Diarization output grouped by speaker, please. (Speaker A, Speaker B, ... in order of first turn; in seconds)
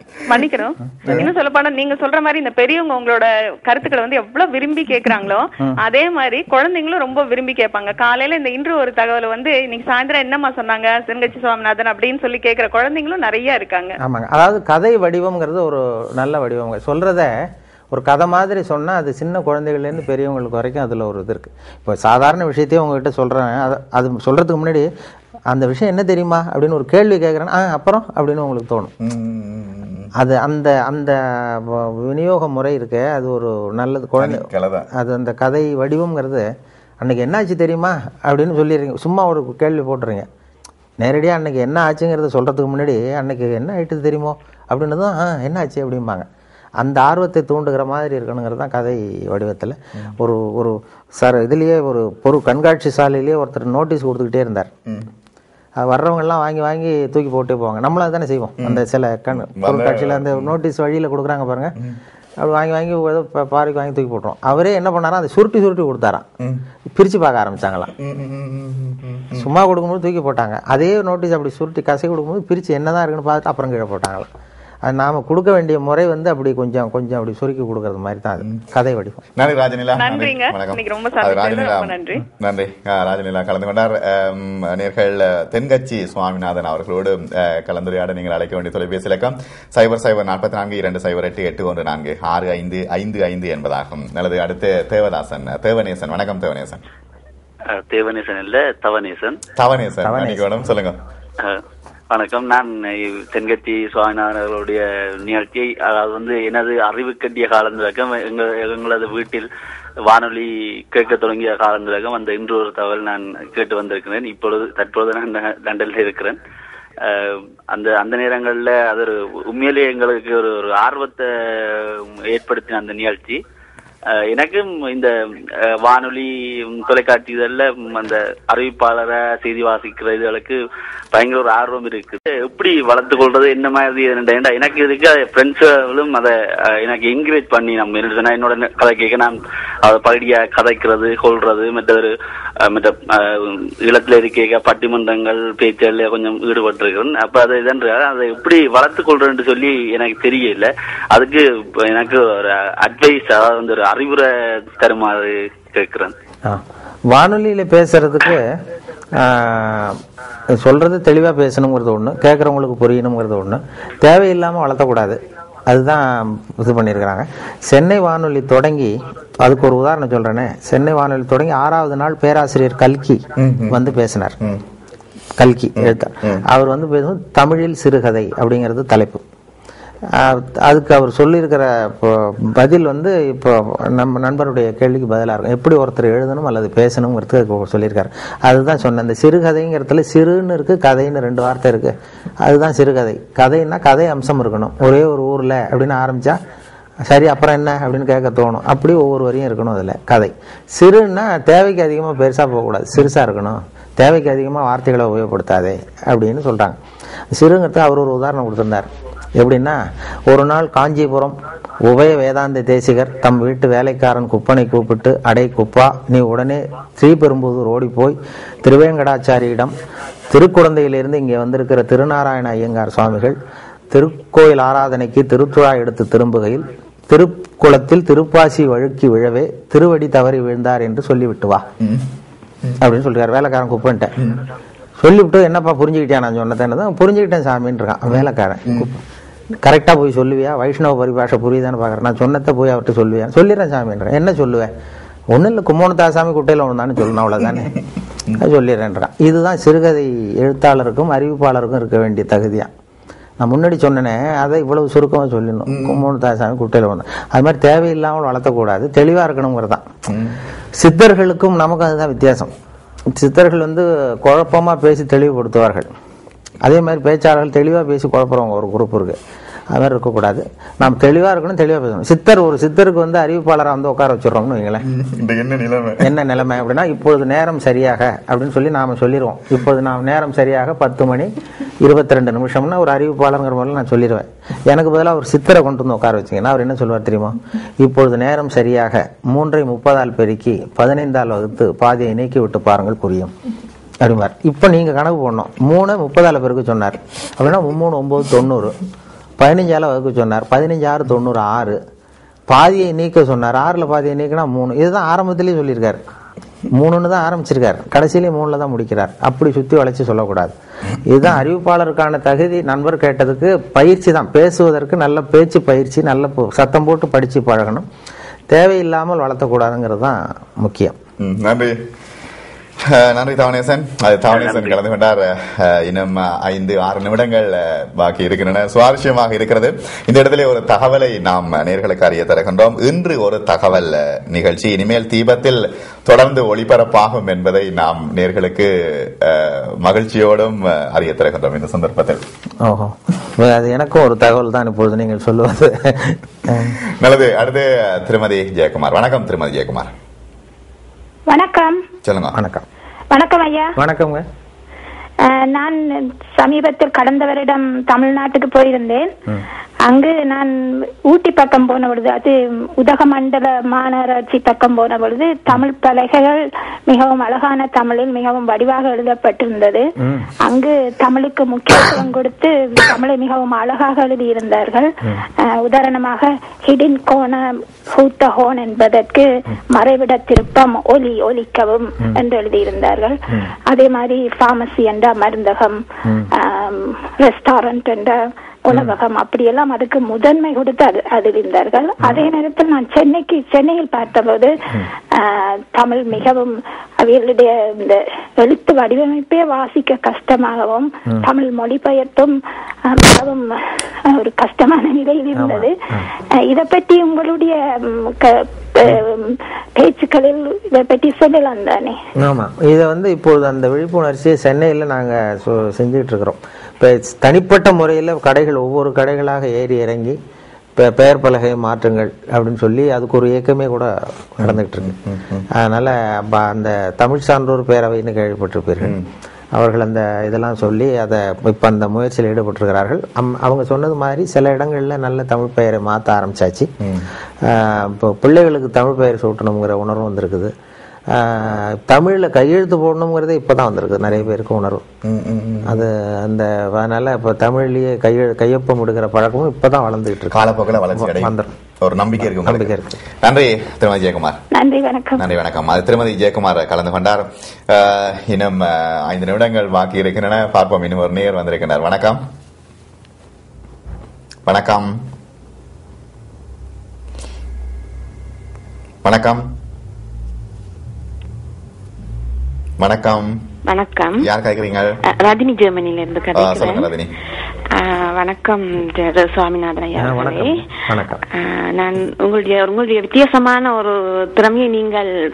Speaker A: 0.2-14.0, 80.0-82.2
Speaker B: 1.0-1.3, 14.0-24.9, 25.5-28.9, 30.2-36.5, 37.0-40.3, 41.0-46.3, 46.8-54.7, 55.8-61.7, 62.4-66.2, 66.9-67.9, 69.3-74.3, 74.8-79.2, 100.0-100.6, 156.4-158.6, 159.1-174.4, 175.4-179.2, 180.1-196.4, 197.0-206.8, 207.3-219.7, 220.3-223.4, 223.9-231.7, 232.8-234.1, 235.0-239.0, 239.6-244.7, 245.3-247.7, 248.3-252.7, 253.4-259.9, 260.8-262.5, 263.1-265.9, 266.6-269.2, 269.7-274.9, 276.0-293.3, 294.0-298.8, 299.4-301.8, 302.5-306.0, 306.7-317.9, 318.5-321.0, 342.6-346.8, 352.3-352.6, 353.8-354.2, 370.0-370.3, 405.3-406.1, 412.2-420.2, 420.8-424.9, 425.5-429.0, 429.5-436.7, 437.4-440.5, 441.1-444.9, 445.6-451.5, 452.3-453.0, 480.0-481.2
Speaker C: 29.0-30.1, 34.2-34.9, 59.3-60.5, 68.0-69.5, 79.3-96.8, 99.5-101.0, 173.4-173.9, 175.8-176.4, 231.8-232.1, 255.7-256.0, 260.1-260.4, 274.8-276.1, 321.2-321.9, 322.8-342.2, 346.6-349.9, 352.0-352.4, 424.4-425.5, 428.8-429.1, 436.8-437.1, 445.0-445.8, 450.3-454.4, 455.2-462.2, 464.4-465.0, 469.0-469.4, 472.8-473.4, 474.2-474.9, 476.3-477.1
Speaker D: 97.7-99.4, 101.4-109.5, 110.0-116.4, 117.0-123.4, 124.1-130.6, 131.1-156.1, 324.3-324.8
Speaker E: 351.3-351.8, 353.1-353.7, 355.2-359.1, 359.8-369.8, 370.4-394.5, 395.1-405.7, 406.3-412.0, 454.5-455.3
Speaker F: 473.7-474.2, 475.1-476.9, 477.7-480.6, 481.3-485.1